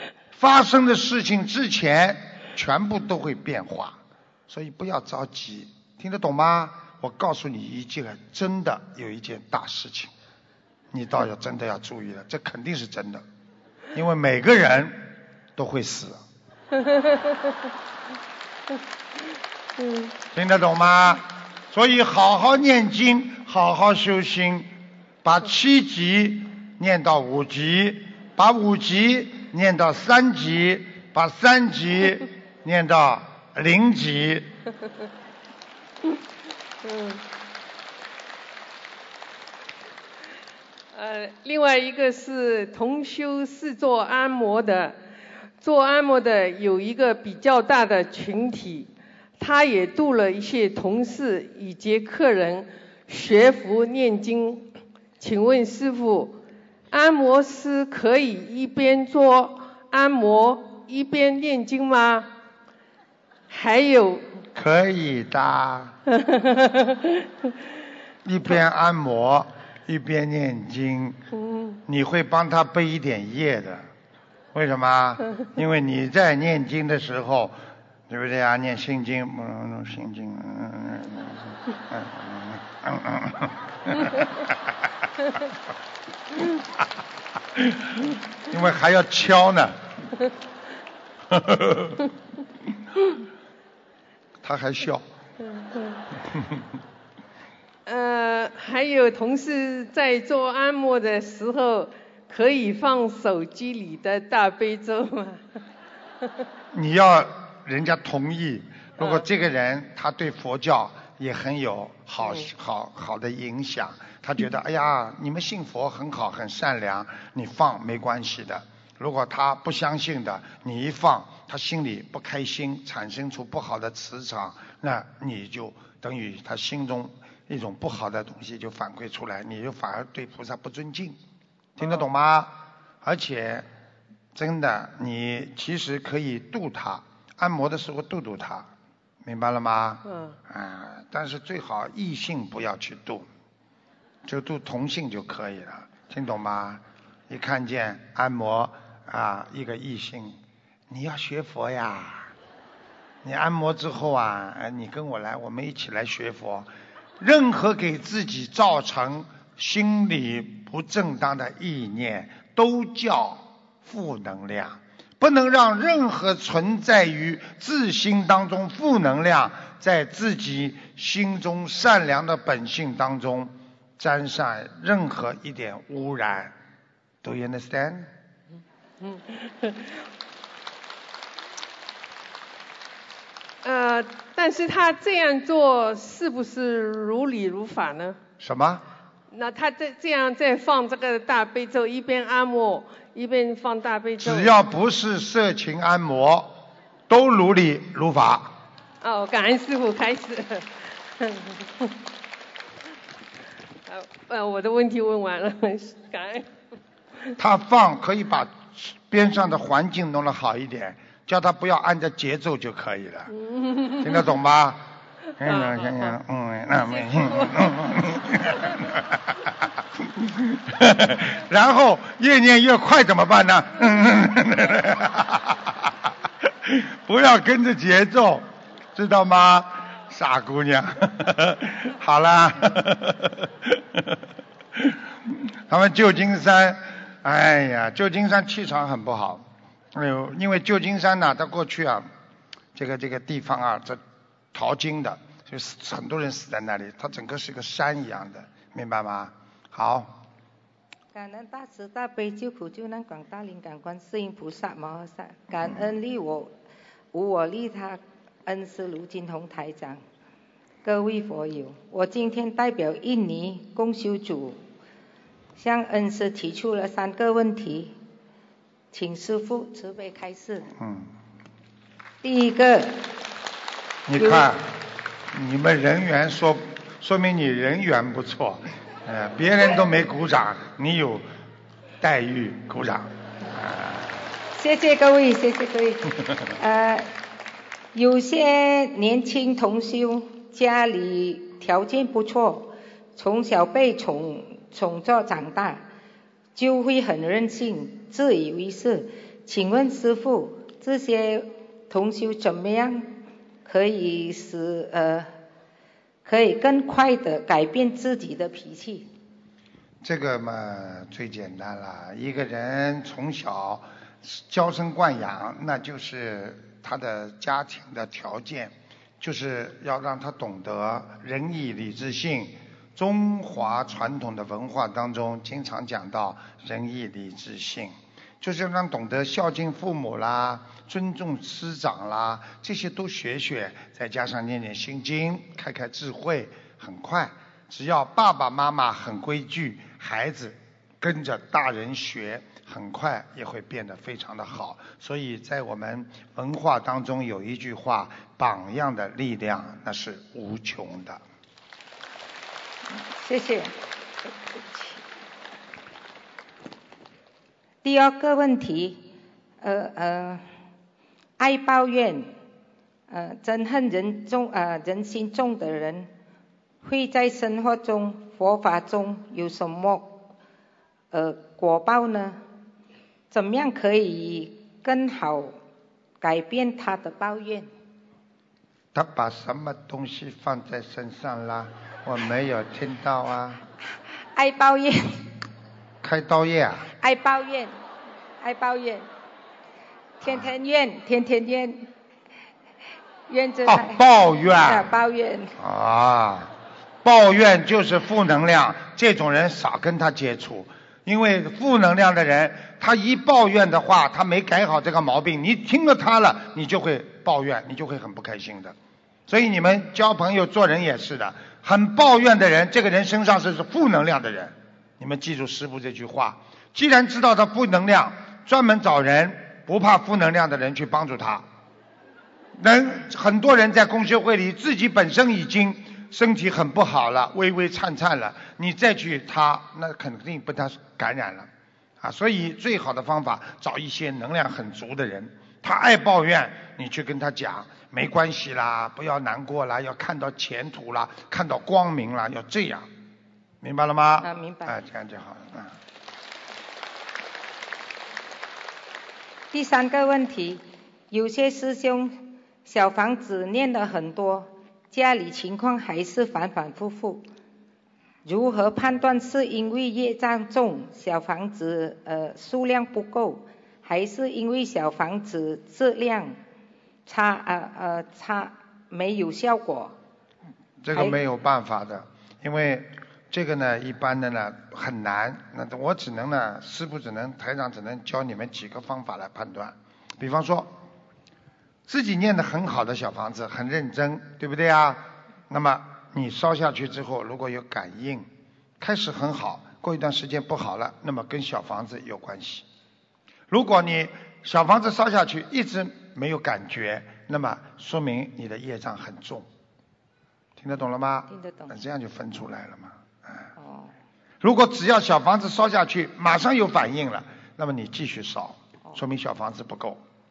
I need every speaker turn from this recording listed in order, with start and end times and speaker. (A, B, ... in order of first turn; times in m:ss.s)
0:00.3-0:04.0 A
0:04.5-0:10.1 A
0:10.9-0:13.2 A
0:13.9-0:16.2 A
0:19.8-0:20.1 B
0:20.3-0:24.7 A
0:25.2-0:34.5 A
0:36.9-0:37.2 B
0:40.9-0:45.0 B
0:45.6-0:56.4 B
0:56.9-1:02.3 B
1:03.5-1:04.2 B
1:04.6-1:06.0 A
1:06.2-1:07.0 B
1:08.2-1:11.2 A
1:11.4-1:11.8 B
1:11.9-1:13.9 A
1:14.5-1:17.6 A
1:18.1-1:24.3 A
1:27.6-1:27.9 A
1:28.5-1:29.8 A
1:31.3-1:32.0 A
1:34.4-1:35.0 A
1:35.4-1:36.0 B
1:37.9-1:45.4 B
1:46.7-2:11.2 A
2:11.8-2:13.7 A
2:14.4-2:18.7 A
2:19.2-2:23.3 A
2:20.1-2:20.4 B
2:24.3-2:30.4 A
2:30.9-2:32.3 A
2:33.2-2:56.6 A
2:57.2-2:58.1 A
2:59.0-2:59.8 B
3:03.6-3:08.2 B
3:08.4-3:08.8 A
3:09.3-3:14.6 B
3:14.2-3:16.5 A
3:17.1-3:18.6 A
3:19.0-3:21.9 B
3:23.9-3:26.5 B
3:27.4-3:33.3 A
3:33.4-3:34.2 B
3:34.0-3:34.9 A
3:35.4-3:39.2 A
3:35.4-3:36.2 B
3:36.8-3:37.9 B
3:40.2-3:45.6 A
3:46.6-3:54.0 A
3:55.7-4:02.1 A
4:02.8-4:04.0 A
4:04.5-4:10.2 A
4:11.1-4:16.5 C
4:17.1-4:20.0 C
4:20.8-4:24.6 C
4:25.6-4:28.0 C
4:28.9-4:30.7 C
4:30.8-4:31.1 A
4:32.2-4:33.0 C
4:34.1-4:34.6 A
4:34.2-4:34.5 C
4:35.3-4:41.3 A
4:42.0-4:44.1 A
4:44.6-4:46.0 C
4:46.6-4:47.1 C
4:47.9-4:55.8 C
4:56.6-5:05.3 C
5:06.2-5:09.1 C
5:10.0-5:51.2 A
5:53.2-5:53.7 C
5:54.7-5:55.0 C
5:57.8-5:59.0 C
5:59.6-6:00.4 C
6:01.4-6:02.3 C
6:03.1-6:06.1 C
6:06.8-6:10.3 C
6:11.1-6:12.4 C
6:13.3-6:15.6 C
6:16.2-6:17.7 C
6:18.9-6:23.6 A
6:24.3-6:25.3 C
6:26.0-6:26.9 A
6:27.0-6:27.7 C
6:28.4-6:29.1 C
6:30.2-6:31.9 C
6:33.3-6:35.6 C
6:33.7-6:34.9 A
6:35.6-6:36.5 A
6:37.0-6:48.8 A
6:49.3-7:01.5 A
7:02.6-7:11.5 A
7:12.0-7:22.9 A
7:23.6-7:25.8 A
7:24.2-7:24.7 C
7:29.5-7:37.3 C
7:38.2-7:46.4 C
7:47.1-7:50.0 C
7:50.8-8:00.7 A
7:50.9-7:51.2 C
8:01.9-8:08.3 A
8:08.8-8:12.6 A
8:13.5-8:19.5 A
8:20.6-8:23.5 A
8:21.3-8:21.7 C
8:23.6-8:23.9 C
8:24.4-8:30.0 A